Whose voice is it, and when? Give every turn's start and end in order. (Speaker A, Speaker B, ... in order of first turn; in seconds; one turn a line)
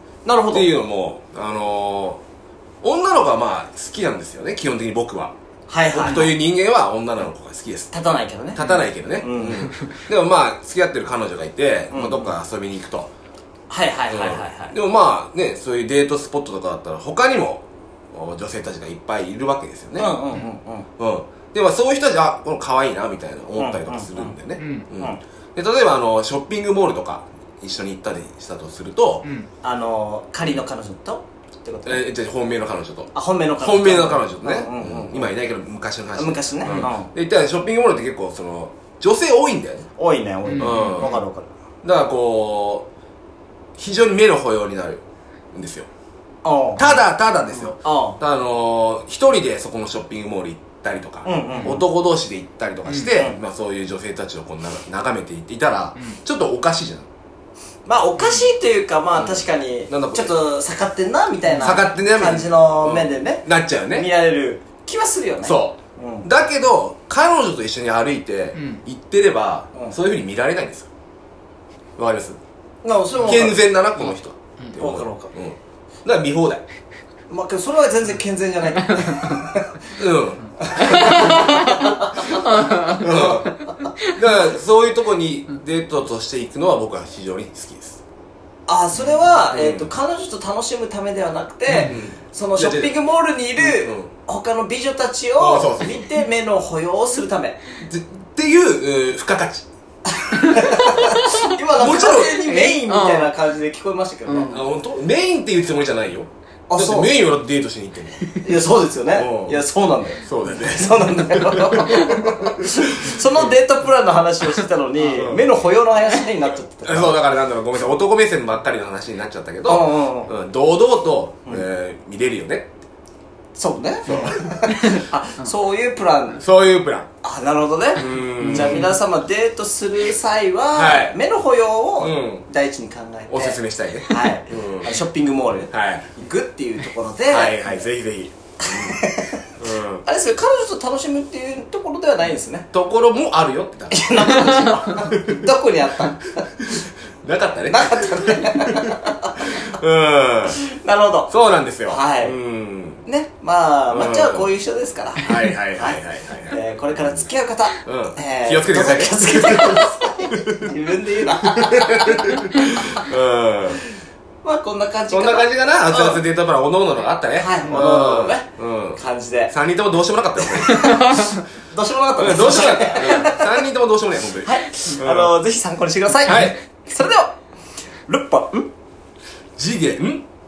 Speaker A: 0.2-0.7
Speaker B: 0.5-2.2
Speaker B: 2.8-5.3
Speaker A: 5.7-6.3
Speaker B: 5.9-7.9
Speaker A: 7.9-9.7
Speaker B: 8.5-13.1
Speaker A: 11.9-12.3
Speaker A: 13.7-14.8
Speaker B: 14.1-20.1
Speaker A: 19.9-20.9
Speaker B: 21.0-29.2
Speaker A: 23.6-24.3
Speaker C: 24.6-24.9
Speaker C: 29.2-29.5
Speaker A: 29.6-32.0
Speaker B: 31.9-39.9
Speaker A: 33.1-35.3
Speaker A: 36.1-37.1
Speaker A: 40.0-41.5
Speaker C: 40.5-41.0
Speaker B: 40.6-41.2
Speaker B: 41.8-42.9
Speaker B: 43.8-45.0
Speaker B: 45.5-45.9
Speaker A: 46.4-47.0
Speaker B: 46.8-57.1
Speaker A: 47.6-48.2
Speaker A: 51.2-51.8
Speaker C: 52.9-53.1
Speaker A: 57.9-66.3
Speaker C: 58.2-58.5
Speaker B: 59.2-60.3
Speaker C: 61.5-61.8
Speaker B: 61.6-64.1
Speaker B: 65.4-70.9
Speaker C: 68.5-68.8
Speaker B: 72.0-72.4
Speaker A: 72.8-73.6
Speaker B: 73.2-76.6
Speaker A: 74.8-75.3
Speaker A: 77.3-79.7
Speaker C: 78.8-79.5
Speaker B: 80.0-81.3
Speaker A: 80.6-83.3
Speaker C: 80.8-84.2
Speaker B: 82.9-88.0
Speaker A: 88.7-97.6
Speaker B: 89.5-89.9
Speaker B: 91.7-92.9
Speaker B: 93.6-94.1
Speaker B: 95.4-96.0
Speaker B: 97.9-99.7
Speaker A: 100.1-104.6
Speaker C: 100.5-101.5
Speaker B: 101.8-102.7
Speaker C: 102.5-103.3
Speaker C: 104.3-104.6
Speaker B: 104.4-108.2
Speaker A: 106.7-107.1
Speaker A: 108.4-117.2
Speaker B: 109.1-109.6
Speaker B: 110.2-113.5
Speaker B: 115.0-115.5
Speaker B: 116.8-122.7
Speaker A: 119.6-120.3
Speaker A: 123.5-126.4
Speaker B: 124.0-124.7
Speaker B: 126.4-127.1
Speaker A: 127.2-137.7
Speaker B: 128.0-128.9
Speaker C: 128.4-128.9
Speaker B: 130.7-131.1
Speaker B: 132.0-132.4
Speaker B: 133.3-134.9
Speaker B: 135.7-136.1
Speaker B: 137.3-139.0
Speaker A: 138.6-139.5
Speaker B: 139.6-140.0
Speaker A: 140.0-142.7
Speaker B: 142.7-145.4
Speaker A: 143.9-146.5
Speaker B: 146.6-150.6
Speaker A: 147.7-149.6
Speaker A: 150.6-151.3
Speaker B: 151.3-153.0
Speaker A: 151.8-152.3
Speaker A: 153.0-162.6
Speaker B: 153.9-154.5
Speaker B: 155.2-156.6
Speaker B: 157.8-160.7
Speaker B: 161.6-163.8
Speaker A: 164.4-166.2
Speaker B: 165.1-171.2
Speaker A: 167.3-169.5
Speaker C: 170.6-171.4
Speaker A: 171.7-173.6
Speaker B: 172.2-175.3
Speaker A: 174.4-177.3
Speaker B: 176.3-176.6
Speaker A: 178.1-178.7
Speaker B: 179.6-180.2